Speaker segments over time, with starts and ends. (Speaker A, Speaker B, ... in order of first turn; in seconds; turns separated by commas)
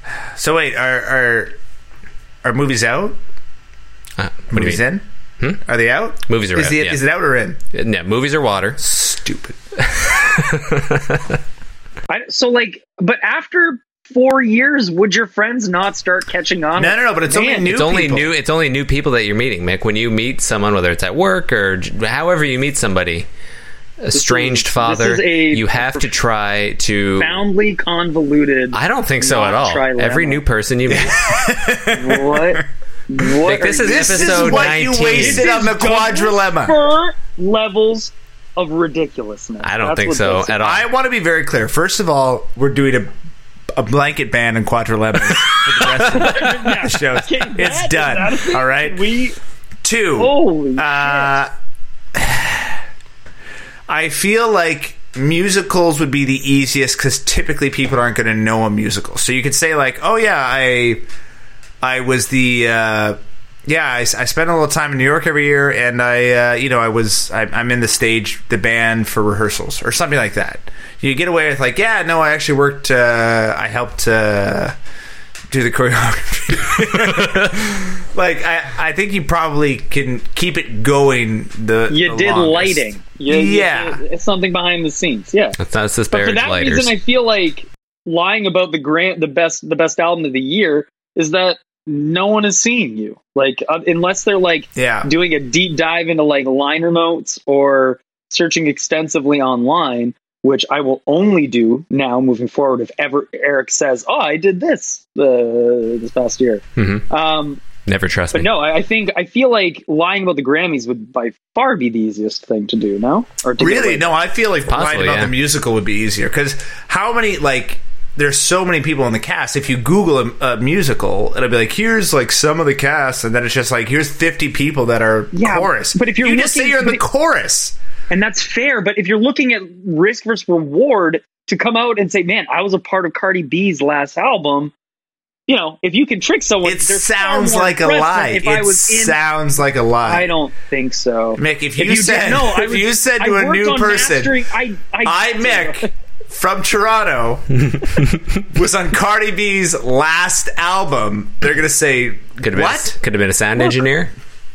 Speaker A: 0.4-1.5, Speaker A: 2.4-3.1, Speaker B: 4.2-4.8, Speaker A: 4.5-5.0, Speaker A: 5.6-7.6, Speaker B: 6.3-7.0, Speaker B: 7.7-8.8, Speaker A: 8.8-9.6, Speaker B: 9.8-11.4, Speaker C: 12.1-17.7, Speaker A: 16.8-18.3, Speaker B: 17.7-23.3, Speaker B: 24.0-27.4, Speaker C: 24.1-26.1, Speaker C: 27.2-30.4, Speaker B: 28.7-31.2, Speaker A: 30.9-32.6, Speaker C: 31.9-40.6, Speaker B: 33.4-35.5, Speaker A: 33.6-36.8, Speaker B: 39.6-40.9, Speaker A: 40.6-43.1, Speaker A: 43.7-49.0, Speaker B: 45.3-46.8, Speaker C: 46.0-49.4, Speaker A: 49.8-51.5, Speaker C: 50.2-51.3, Speaker A: 52.1-52.8, Speaker A: 53.9-61.0, Speaker A: 61.8-74.8, Speaker A: 75.5-84.0, Speaker B: 76.8-77.6, Speaker C: 81.9-85.6, Speaker B: 85.6-86.9, Speaker C: 86.1-107.6, Speaker A: 94.8-95.1, Speaker B: 106.8-107.0, Speaker B: 107.8-108.5, Speaker C: 108.3-114.1, Speaker A: 113.6-127.7, Speaker B: 114.7-115.3, Speaker C: 125.3-127.0, Speaker C: 128.1-134.7, Speaker C: 135.5-139.2, Speaker A: 136.6-140.3, Speaker C: 140.0-145.9, Speaker A: 141.4-144.4, Speaker A: 145.0-152.9, Speaker B: 147.7-148.2, Speaker B: 152.4-154.1